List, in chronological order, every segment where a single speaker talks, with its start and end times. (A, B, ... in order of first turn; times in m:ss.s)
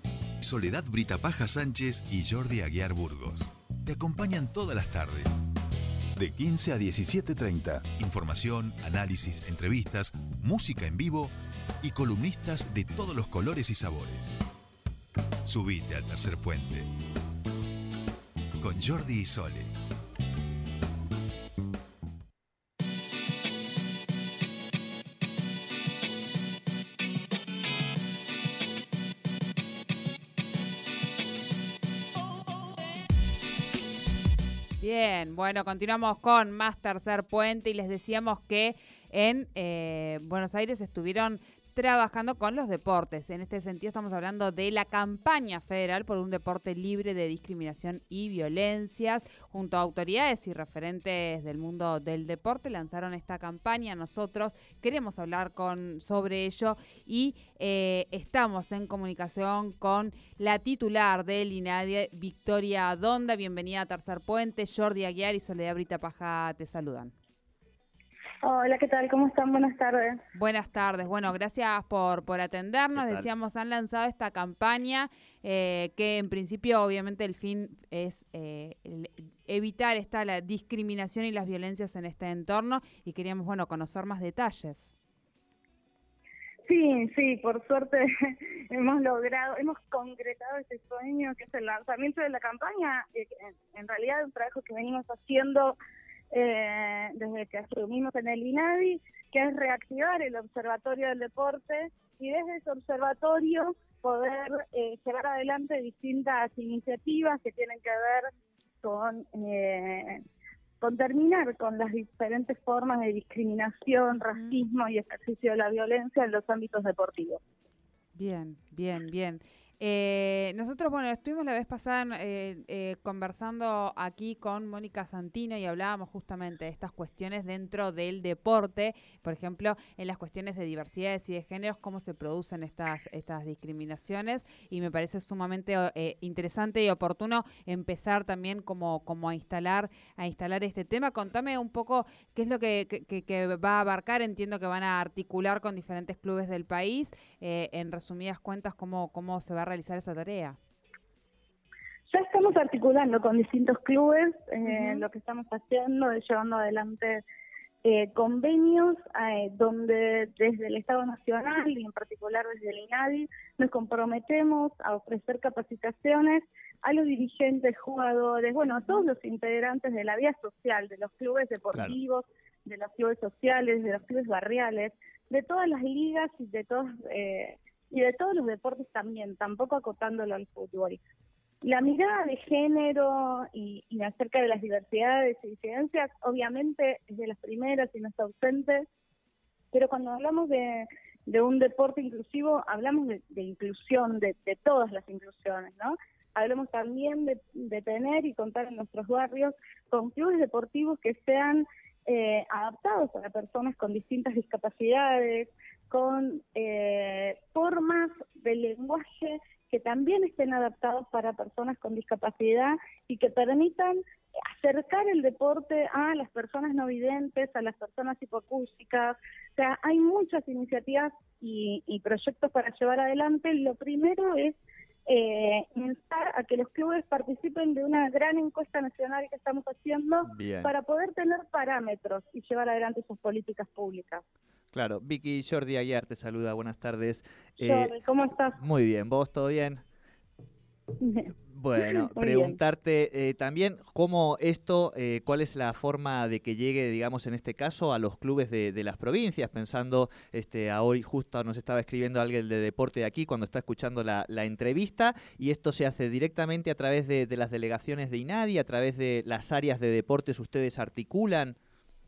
0:00.4-0:05.3 A
0:06.2-0:14.4 A
0:15.4-0:16.9 A
0:18.6-0:19.7 A
0:34.8-1:07.1 B
1:08.4-1:10.2 C
1:10.3-1:24.9 B
1:13.0-1:13.3 D
1:26.7-1:35.8 C
1:36.3-1:48.3 C
1:48.8-1:50.2 C
1:50.8-1:57.4 C
1:58.2-2:30.6 B
2:32.1-2:37.2 C
2:34.6-2:35.0 B
2:37.8-3:01.0 C
3:01.6-3:08.8 C
3:09.7-3:54.2 C
3:50.2-3:50.7 D
3:54.7-3:59.8 D
3:57.6-3:58.6 C
4:01.0-4:02.6 C
4:01.5-4:21.6 D